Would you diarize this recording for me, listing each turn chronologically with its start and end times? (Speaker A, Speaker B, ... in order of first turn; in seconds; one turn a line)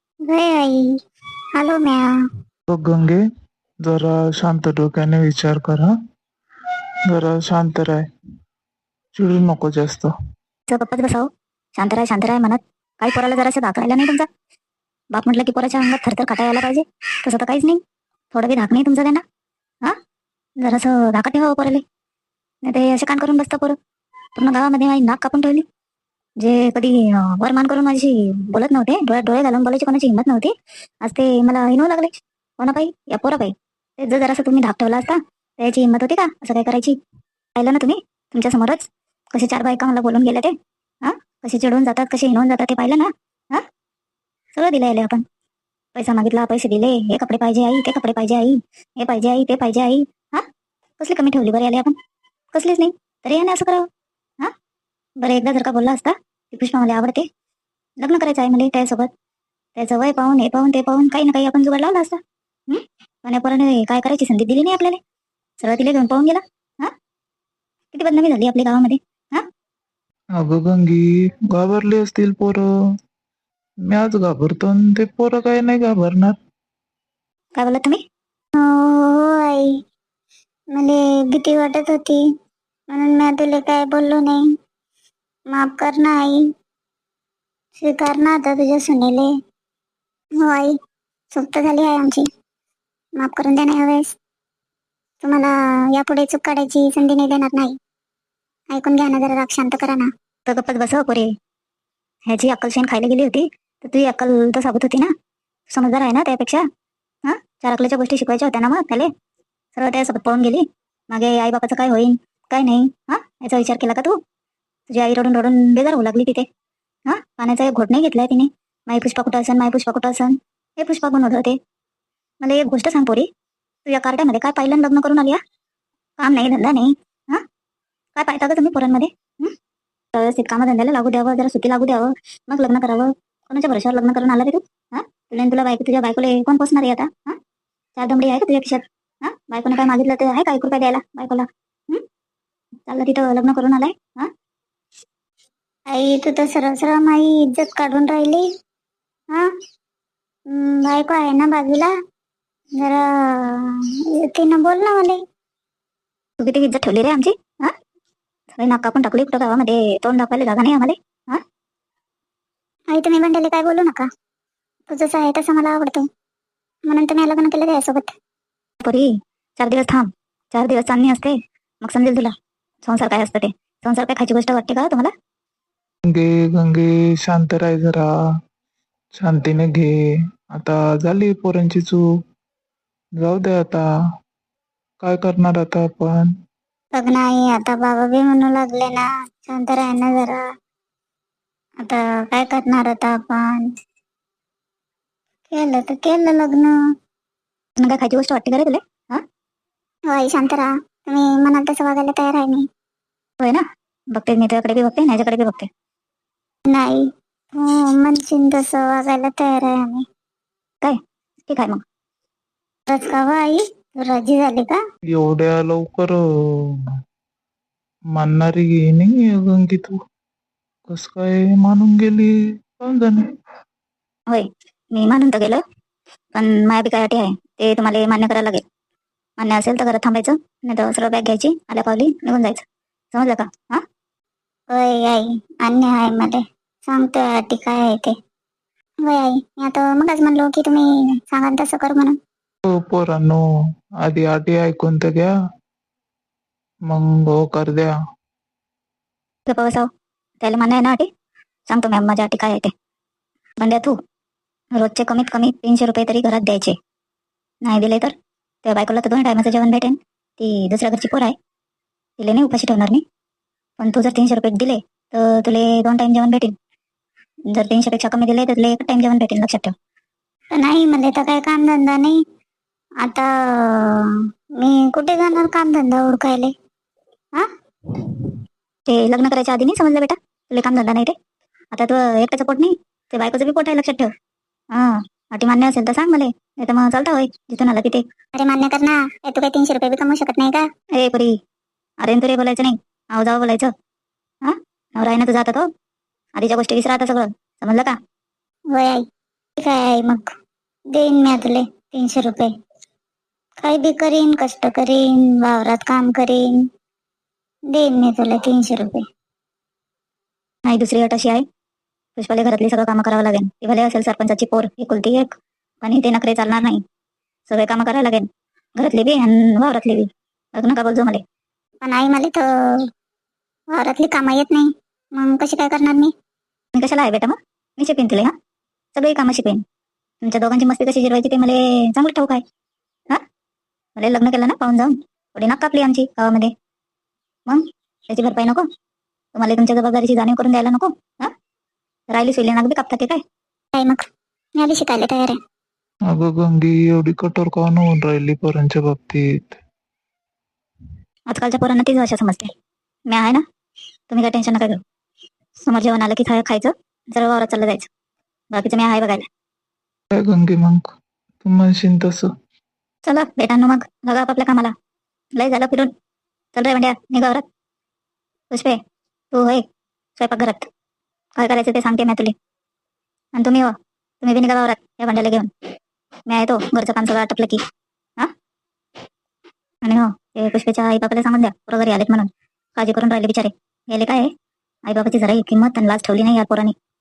Speaker A: 0.3-0.8
Speaker A: 1.6-2.1
Speaker B: 2.7-3.2
Speaker B: 3.9-5.9
Speaker B: 7.1-8.0
Speaker B: 9.1-10.1
Speaker C: 10.7-14.3
Speaker C: 15.1-17.8
Speaker C: 18.3-19.2
Speaker C: 20.6-21.8
Speaker C: 22.6-23.8
Speaker C: 24.4-25.6
Speaker C: 26.4-30.5
Speaker C: 31.0-37.0
Speaker C: 37.6-40.5
Speaker C: 41.0-43.6
Speaker C: 44.5-45.2
Speaker C: 46.0-50.5
Speaker C: 51.0-52.0
Speaker C: 52.5-53.9
Speaker C: 55.2-57.2
Speaker C: 58.0-59.1
Speaker C: 59.8-65.0
Speaker C: 65.6-66.9
Speaker C: 67.9-69.5
Speaker B: 70.4-72.7
Speaker B: 73.9-76.4
Speaker C: 77.6-78.0
Speaker A: 78.6-79.7
Speaker A: 80.7-82.2
Speaker A: 82.9-84.4
Speaker A: 85.5-86.4
Speaker A: 87.8-89.3
Speaker A: 90.4-90.7
Speaker A: 91.3-92.2
Speaker A: 93.2-94.1
Speaker A: 95.2-97.7
Speaker A: 98.7-100.1
Speaker C: 100.5-101.3
Speaker C: 102.3-105.1
Speaker C: 105.7-106.6
Speaker C: 107.3-109.1
Speaker C: 109.8-114.2
Speaker C: 114.9-116.5
Speaker C: 117.1-121.6
Speaker C: 122.4-123.3
Speaker C: 123.9-125.4
Speaker C: 126.2-127.4
Speaker C: 128.2-129.5
Speaker C: 130.1-137.4
Speaker C: 138.0-142.0
Speaker C: 142.9-144.3
Speaker A: 145.9-148.4
Speaker A: 150.5-151.9
Speaker A: 152.8-155.2
Speaker C: 156.4-157.7
Speaker C: 158.6-161.4
Speaker A: 162.9-164.1
Speaker A: 164.9-166.0
Speaker A: 166.9-168.1
Speaker C: 168.8-172.3
Speaker C: 172.8-175.1
Speaker B: 176.1-178.1
Speaker B: 179.2-179.9
Speaker B: 180.5-182.0
Speaker B: 183.2-183.8
Speaker B: 185.0-186.3
Speaker A: 186.9-190.4
Speaker A: 191.8-193.7
Speaker A: 195.5-196.8
Speaker C: 197.8-199.2
Speaker A: 200.1-202.7
Speaker C: 203.4-205.7
Speaker A: 206.7-207.0
Speaker A: 207.6-210.0
Speaker C: 210.8-211.8
Speaker A: 212.9-214.8
Speaker B: 215.1-216.2
Speaker B: 218.1-220.0
Speaker B: 220.9-223.2
Speaker C: 224.3-225.6
Speaker C: 226.3-228.6
Speaker C: 229.4-233.8
Speaker A: 234.7-238.1
Speaker A: 239.1-242.2
Speaker B: 242.7-243.4
Speaker B: 244.0-245.3
Speaker B: 246.9-247.9
Speaker C: 249.5-249.9
Speaker C: 250.4-251.1
Speaker C: 251.7-252.7
Speaker C: 253.6-253.9
Speaker C: 254.7-256.8
Speaker C: 257.6-258.1
Speaker C: 258.6-261.4
Speaker C: 262.2-263.0
Speaker C: 263.8-266.5
Speaker C: 267.5-269.7
Speaker A: 270.6-272.2
Speaker A: 273.0-276.5
Speaker C: 278.9-281.1
Speaker C: 281.7-284.1
Speaker C: 284.7-288.0
Speaker A: 288.4-290.6
Speaker C: 290.9-291.3
Speaker C: 292.0-293.7
Speaker C: 294.4-295.7
Speaker C: 296.4-297.9
Speaker A: 298.7-299.0
Speaker A: 299.6-300.2
Speaker A: 300.9-302.5
Speaker A: 303.6-306.6
Speaker A: 307.7-309.0
Speaker C: 310.7-311.4
Speaker C: 312.2-316.8
Speaker C: 317.5-321.2
Speaker A: 321.8-322.9
Speaker A: 323.7-326.1
Speaker C: 326.8-328.3
Speaker C: 328.9-329.6
Speaker C: 330.2-332.4
Speaker C: 334.0-336.5
Speaker C: 337.5-338.7
Speaker C: 339.4-341.3
Speaker C: 342.1-343.2
Speaker A: 343.8-344.1
Speaker A: 344.6-345.4
Speaker B: 346.1-349.6
Speaker C: 351.3-352.5
Speaker C: 353.1-353.4
Speaker C: 354.1-354.8
Speaker C: 355.6-357.9
Speaker C: 358.5-359.3
Speaker B: 360.1-360.9
Speaker B: 361.4-362.3
Speaker C: 363.1-364.7
Speaker C: 365.4-365.9
Speaker C: 366.6-367.4
Speaker C: 368.5-368.8
Speaker C: 369.3-369.6
Speaker C: 370.2-370.7
Speaker C: 371.4-372.3
Speaker C: 373.4-375.5
Speaker C: 376.3-377.6
Speaker C: 379.8-384.3
Speaker C: 384.9-386.8